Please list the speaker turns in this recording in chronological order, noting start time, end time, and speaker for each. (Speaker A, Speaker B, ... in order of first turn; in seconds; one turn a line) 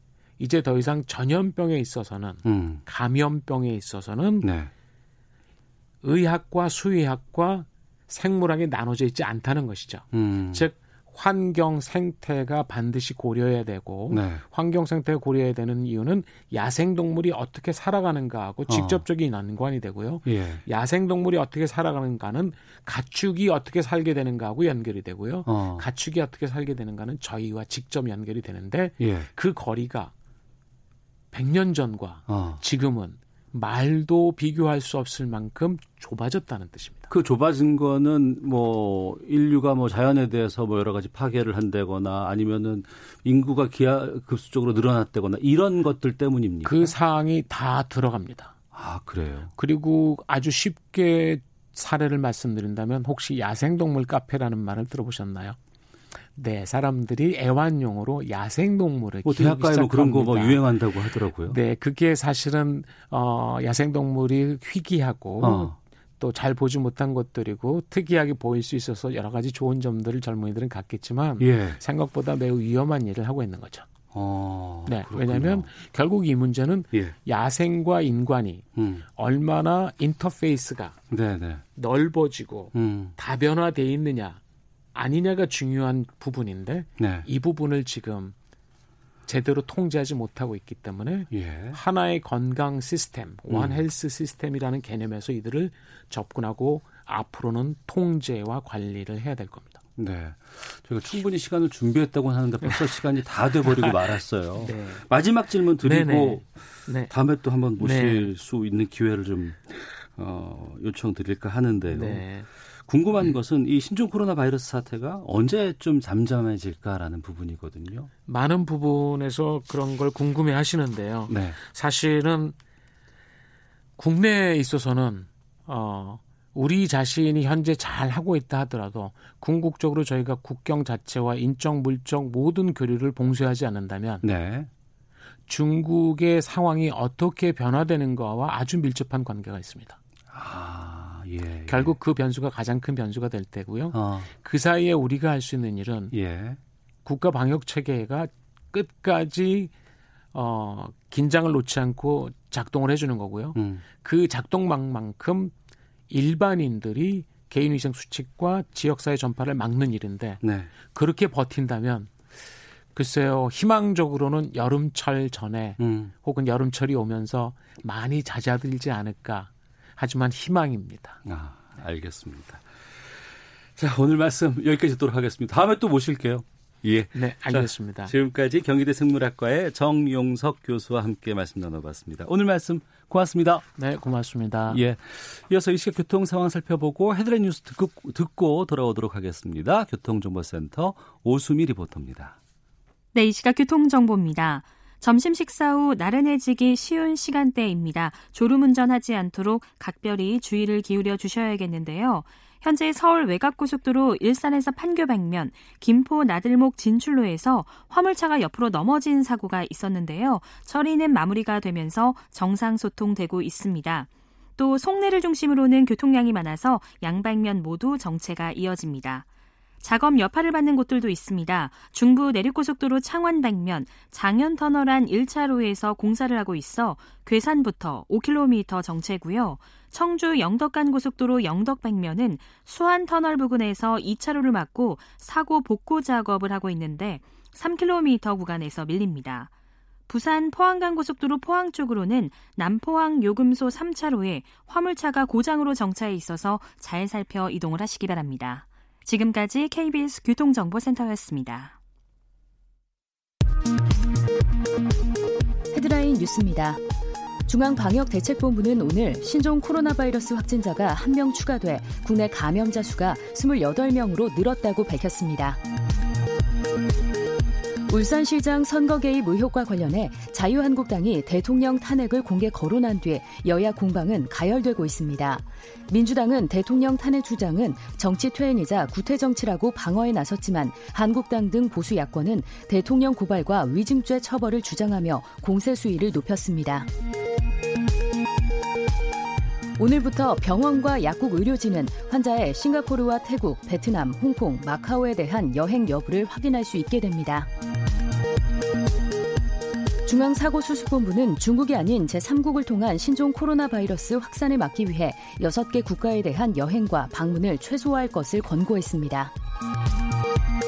Speaker A: 0.4-4.5
Speaker B: 2.4-2.8
Speaker B: 4.4-4.7
Speaker A: 6.0-30.1
Speaker B: 10.1-10.7
Speaker B: 14.1-14.4
Speaker B: 18.7-19.0
Speaker B: 20.2-20.6
Speaker B: 25.4-25.8
Speaker B: 29.0-29.3
Speaker A: 31.3-37.1
Speaker B: 32.3-32.6
Speaker B: 37.1-46.9
Speaker A: 46.6-48.5
Speaker B: 48.7-49.5
Speaker A: 49.6-55.5
Speaker A: 56.4-60.6
Speaker B: 59.2-61.6
Speaker A: 61.5-73.8
Speaker B: 65.4-65.7
Speaker B: 71.4-71.8
Speaker B: 74.1-75.7
Speaker A: 74.8-81.0
Speaker B: 78.8-79.0
Speaker B: 81.1-81.6
Speaker A: 81.8-84.4
Speaker B: 82.7-83.1
Speaker A: 84.9-88.3
Speaker B: 87.0-87.3
Speaker A: 89.3-99.8
Speaker B: 91.3-91.8
Speaker B: 93.5-93.8
Speaker B: 100.0-106.5
Speaker A: 104.6-105.0
Speaker A: 105.8-107.1
Speaker B: 107.1-112.2
Speaker A: 107.8-108.3
Speaker A: 111.9-112.5
Speaker B: 112.8-118.1
Speaker A: 118.3-122.5
Speaker B: 121.3-121.6
Speaker A: 124.0-134.2
Speaker B: 134.2-134.7
Speaker A: 135.5-140.0
Speaker B: 140.3-141.9
Speaker A: 141.7-146.1
Speaker B: 143.9-144.3
Speaker B: 146.1-146.6
Speaker A: 147.0-149.7
Speaker A: 150.3-155.5
Speaker B: 153.5-153.8
Speaker A: 156.1-162.1
Speaker B: 160.4-160.7
Speaker A: 162.9-171.2
Speaker B: 165.8-166.1
Speaker B: 171.2-172.6
Speaker B: 173.8-183.6
Speaker A: 177.1-178.1
Speaker A: 183.8-184.8
Speaker B: 184.7-192.4
Speaker C: 193.1-219.2
Speaker C: 219.8-239.5
Speaker C: 240.1-251.7
Speaker D: 255.7-256.8
Speaker D: 257.5-265.6
Speaker D: 267.9-286.9
Speaker D: 289.8-297.5
Speaker D: 300.1-309.3